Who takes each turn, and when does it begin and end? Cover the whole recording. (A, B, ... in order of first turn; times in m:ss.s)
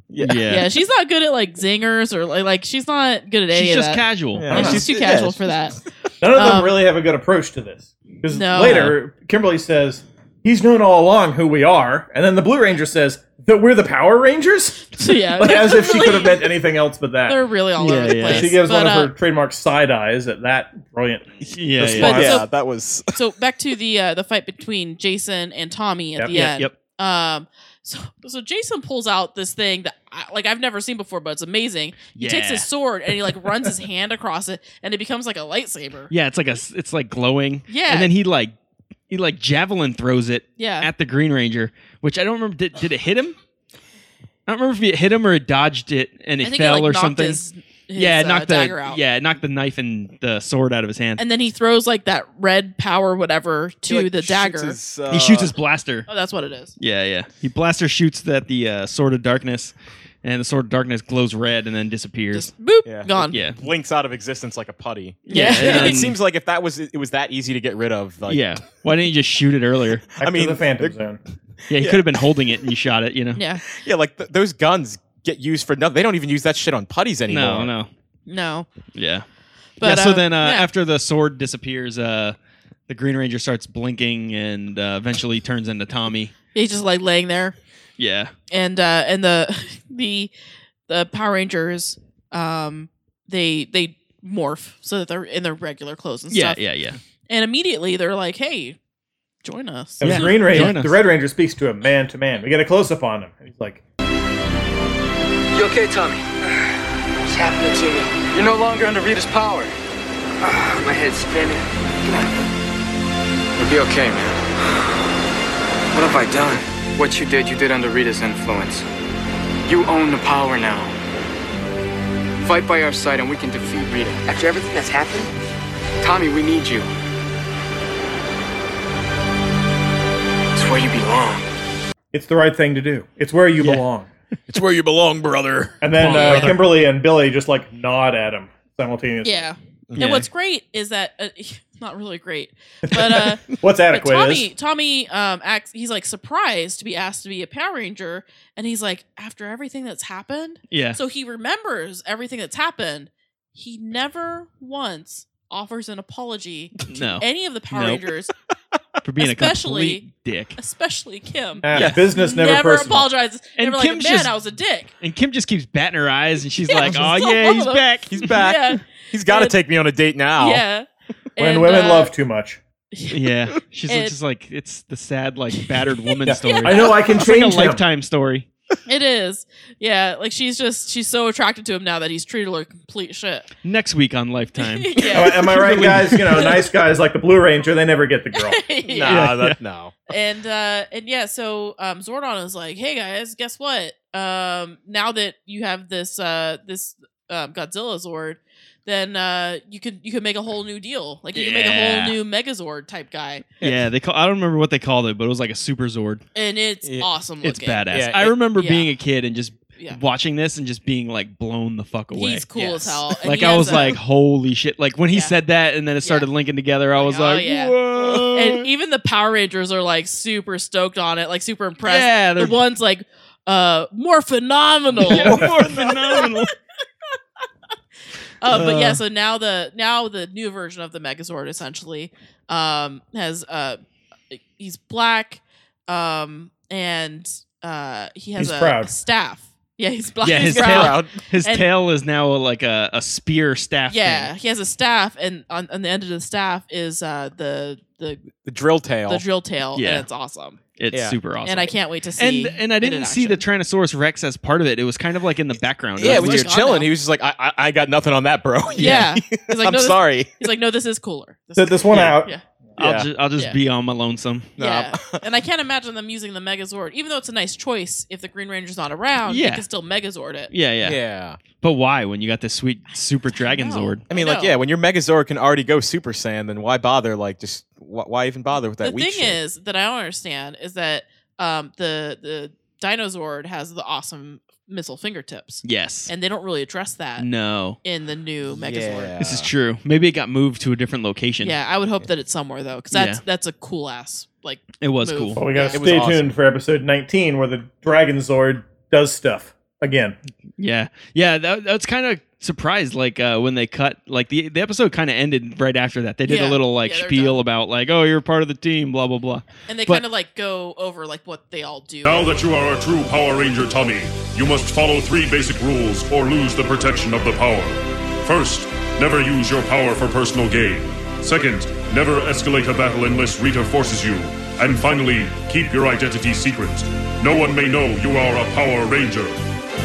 0:00.1-0:00.5 A
0:00.2-0:00.7 B
0:00.5-0:05.8 C
0:03.5-0:04.9 B
0:04.4-0:05.4 A
0:04.5-0:04.8 D
0:06.2-0:17.4 D
0:06.3-0:06.8 C
0:08.3-0:08.9 C
0:08.6-0:09.0 B
0:15.0-0:16.5 C
0:17.3-0:19.1 C
0:17.8-0:18.5 B
0:18.1-0:22.4 D
0:21.5-0:22.3 B
0:22.0-0:22.5 C
0:22.0-0:23.1 A
0:23.1-0:36.1 C
0:26.3-0:26.8 B
0:32.2-0:32.7 B
0:36.1-0:38.5 B
0:37.7-0:38.1 C
0:39.1-0:43.4 B
0:40.6-0:40.9 C
0:44.5-0:47.4 B
0:46.4-0:49.0 C
0:48.0-0:51.2 B
0:51.2-0:54.8 C
0:53.9-0:55.5 A
0:55.1-0:56.1 B
0:56.1-0:56.7 C
0:56.8-1:02.5 B
1:02.3-1:03.4 C
1:02.8-1:08.5 A
1:03.3-1:03.6 B
1:05.3-1:06.1 C
1:05.3-1:06.2 B
1:08.3-1:10.1 B
1:10.2-1:11.0 A
1:10.2-1:11.2 D
1:11.6-1:12.0 A
1:11.7-1:13.4 B
1:13.4-1:13.6 C
1:13.7-1:17.7 A
1:17.3-1:17.9 B
1:18.3-1:18.7 C
1:19.0-1:19.2 B
1:19.8-1:20.7 C
1:19.8-1:22.4 B
1:22.9-1:26.3 B
1:26.5-1:27.6 C
1:28.0-1:28.3 B
1:28.5-1:30.3 C
1:30.9-1:36.6 C
1:36.3-1:37.0 B
1:37.3-1:38.8 C
1:39.4-1:40.7 C
1:40.0-1:43.8 D
1:40.0-1:41.0 B
1:45.5-1:46.3 E
1:47.2-1:49.7 E
1:50.4-1:52.4 E
1:53.6-1:54.5 E
1:55.9-1:58.9 E
1:59.7-2:01.0 E
2:02.4-2:05.3 E
2:06.0-2:06.9 E
2:10.6-2:11.4 E
2:12.1-2:14.1 D
2:13.6-2:13.8 B
2:14.5-2:16.5 A
2:15.8-2:19.4 D
2:16.0-2:16.6 B
2:16.0-2:16.5 C
2:19.2-2:38.3 C
2:19.9-2:20.2 A
2:20.0-2:20.2 B
2:22.9-2:23.4 A
2:23.5-2:24.5 D
2:30.7-2:31.0 B
2:36.9-2:38.0 B
2:39.0-2:40.6 B
2:39.2-2:40.0 C
2:40.6-2:44.9 C
2:41.6-2:43.1 D
2:41.7-2:42.1 B
2:43.6-2:44.3 B
2:45.0-2:48.3 B
2:46.7-2:49.6 C
2:46.8-2:47.1 A
2:48.1-2:50.6 A
2:50.4-2:52.1 C
2:51.4-2:52.6 D
2:52.9-2:53.2 C
2:53.1-2:58.5 B
2:53.9-2:54.2 C
2:55.6-2:56.9 C
2:56.2-2:57.8 D
2:58.9-3:03.5 C
3:03.6-3:06.5 B
3:04.6-3:05.6 C
3:05.1-3:08.6 D
3:08.4-3:09.3 C
3:08.9-3:10.0 A
3:09.1-3:09.6 B
3:10.1-3:23.4 C
3:21.4-3:22.2 B
3:23.6-3:26.2 B
3:26.4-3:27.8 C
3:27.4-3:32.5 B
3:27.9-3:28.3 A
3:28.6-3:28.9 C
3:32.1-3:34.0 C
3:32.6-3:33.2 A
3:33.2-3:38.7 B
3:37.0-3:46.4 C
3:41.8-3:42.6 B
3:45.0-3:46.5 B
3:48.4-3:53.8 C
3:48.5-3:49.0 B
3:54.3-4:01.7 C
3:58.4-3:58.9 D
4:00.2-4:04.3 B
4:00.3-4:01.2 A
4:03.9-4:08.3 C
4:08.4-4:09.2 A
4:09.1-4:10.6 C
4:09.8-4:10.1 B
4:10.8-4:16.6 B
4:10.9-4:11.2 A
4:11.4-4:13.4 C
4:16.0-4:20.3 A
4:16.0-4:16.9 C
4:18.8-4:19.1 B
4:18.8-4:22.4 C
4:21.6-4:22.3 D
4:21.9-4:22.2 B
4:22.8-4:23.1 A
4:22.8-4:24.5 B
4:24.6-4:25.2 A
4:24.6-4:30.5 C
4:29.3-4:29.6 B
4:30.5-4:31.0 B
4:30.8-4:31.4 A
4:31.6-4:34.0 B
4:33.3-4:34.5 C
4:34.1-4:39.4 A
4:38.8-4:47.3 C
4:45.6-4:46.1 B
4:47.2-4:47.8 B
4:47.8-4:49.2 C
4:48.5-4:49.5 A
4:49.2-4:51.6 B
4:51.4-4:56.0 C
4:52.9-4:53.2 B
4:54.8-4:55.4 B
4:55.4-5:00.2 D
4:55.6-4:56.3 A
5:00.6-5:10.0 B
5:06.3-5:07.4 C
5:09.7-5:12.4 C
5:12.0-5:29.4 F